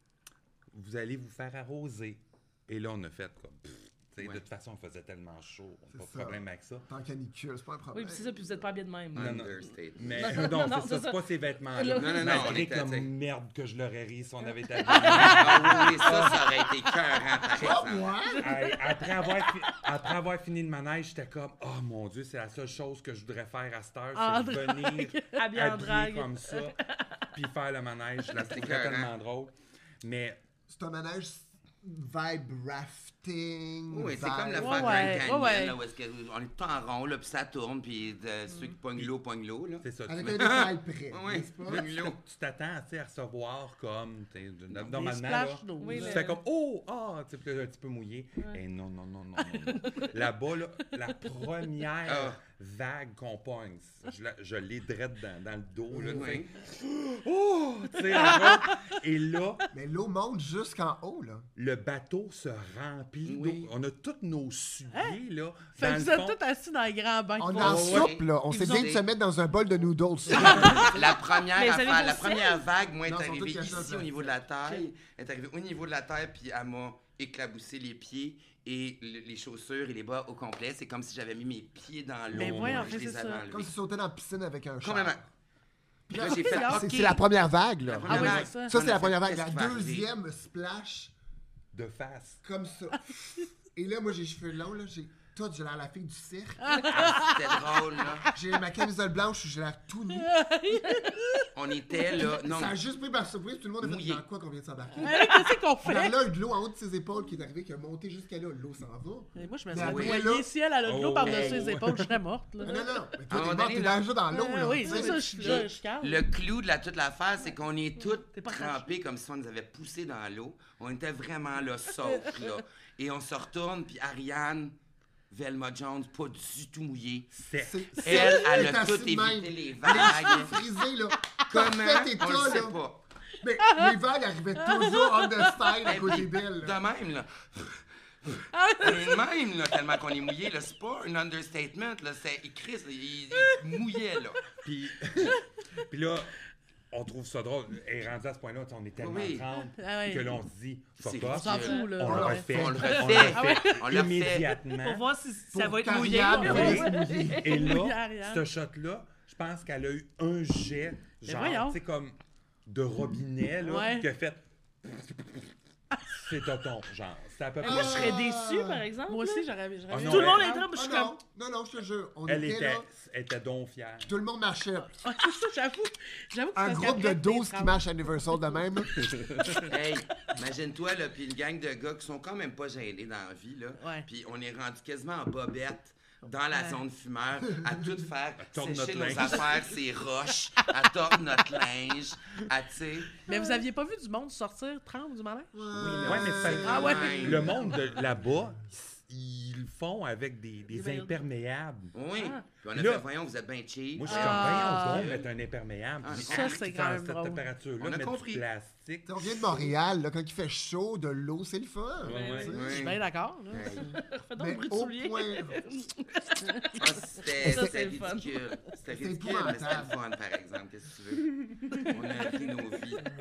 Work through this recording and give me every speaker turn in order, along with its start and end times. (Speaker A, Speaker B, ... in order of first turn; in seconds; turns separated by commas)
Speaker A: 0.7-6.8, Speaker B: 5.9-8.7, Speaker C: 7.9-12.6, Speaker D: 9.1-10.4, Speaker A: 9.1-16.5, Speaker D: 11.9-13.1, Speaker C: 14.5-15.4, Speaker E: 14.9-15.4, Speaker D: 15.1-18.1, Speaker B: 17.5-18.4, Speaker C: 18.3-19.7, Speaker A: 18.4-26.8, Speaker E: 24.1-25.4, Speaker C: 25.4-27.2, Speaker A: 27.3-30.4, Speaker D: 28.3-29.1, Speaker B: 30.7-35.3, Speaker D: 33.9-42.2, Speaker E: 34.6-35.8, Speaker A: 39.8-40.6, Speaker B: 40.1-41.9, Speaker A: 41.7-59.7, Speaker E: 44.8-46.3, Speaker C: 45.8-46.4, Speaker D: 52.0-52.4, Speaker B: 55.9-56.4, Speaker D: 56.1-56.5, Speaker E: 58.1-58.8, Speaker B: 59.7-61.5, Speaker A: 61.5-66.4, Speaker D: 63.2-63.7, Speaker E: 64.9-65.2, Speaker E: 65.7-68.0, Speaker B: 67.4-71.1, Speaker A: 67.6-68.1, Speaker D: 67.6-69.0, Speaker C: 68.5-68.9, Speaker D: 70.4-83.7, Speaker E: 70.5-70.8, Speaker C: 71.5-72.6, Speaker B: 73.0-74.3, Speaker A: 82.3-83.0, Speaker E: 82.3-83.4, Speaker B: 83.5-85.2, Speaker D: 84.8-85.2, Speaker B: 86.1-91.1, Speaker D: 86.1-87.2, Speaker E: 86.2-87.1, Speaker D: 87.8-90.1, Speaker E: 88.0-88.7, Speaker A: 91.7-92.4, Speaker B: 92.4-97.0, Speaker E: 96.7-97.6, Speaker D: 96.9-98.3, Speaker B: 98.3-100.4, Speaker E: 100.1-101.5, Speaker D: 101.5-102.8, Speaker B: 102.3-110.5, Speaker D: 103.8-104.2, Speaker E: 105.0-106.2, Speaker E: 109.3-112.8, Speaker D: 109.7-110.3, Speaker A: 110.8-112.2, Speaker D: 111.2-111.7, Speaker B: 112.6-115.6, Speaker D: 113.3-114.0, Speaker E: 114.3-116.2, Speaker D: 115.0-124.7, Speaker C: 118.0-118.9, Speaker D: 125.3-127.3, Speaker A: 127.3-128.2, Speaker B: 127.6-132.8, Speaker D: 128.0-130.5, Speaker D: 131.5-133.0, Speaker B: 133.4-136.8, Speaker E: 133.7-133.9, Speaker E: 134.6-135.2, Speaker D: 135.8-144.6, Speaker E: 138.5-139.2, Speaker A: 144.6-146.3, Speaker A: 146.9-155.1, Speaker D: 149.0-149.4, Speaker E: 149.8-150.3, Speaker D: 151.0-154.6, Speaker E: 151.3-152.5, Speaker C: 151.6-151.9, Speaker B: 152.0-153.0, Speaker E: 153.3-153.8, Speaker C: 154.7-157.7, Speaker B: 155.5-157.6, Speaker A: 156.2-165.5, Speaker E: 157.5-158.5, Speaker E: 161.2-161.8, Speaker E: 163.6-164.1, Speaker A: 166.1-168.3, Speaker B: 167.6-168.8, Speaker C: 167.6-171.2, Speaker E: 169.1-170.7, Speaker A: 169.9-170.6, Speaker B: 170.7-172.9, Speaker A: 172.2-174.1, Speaker B: 174.0-175.0, Speaker E: 175.0-177.8, Speaker B: 176.5-179.3, Speaker D: 179.7-193.2, Speaker E: 183.8-184.1, Speaker E: 186.5-186.8, Speaker A: 188.4-189.7, Speaker E: 193.3-195.6, Speaker C: 193.3-193.6, Speaker B: 195.5-197.8, Speaker D: 195.7-197.7, Speaker A: 196.0-201.9, Speaker E: 196.6-197.7, Speaker C: 200.7-201.1, Speaker D: 201.9-205.2, Speaker C: 202.1-202.4, Speaker A: 202.7-203.1, Speaker A: 203.9-209.6, Speaker E: 204.1-205.2, Speaker D: 206.0-206.6, Speaker E: 206.1-207.4, Speaker D: 207.8-208.4, Speaker B: 209.1-212.9, Speaker A: 212.0-212.6, Speaker C: 212.1-212.5, Speaker D: 212.5-213.9, Speaker E: 212.7-214.0, Speaker C: 213.7-216.8, Speaker B: 214.4-215.7, Speaker D: 216.8-223.1, Speaker C: 217.4-218.4, Speaker B: 217.4-217.7, Speaker B: 218.9-219.9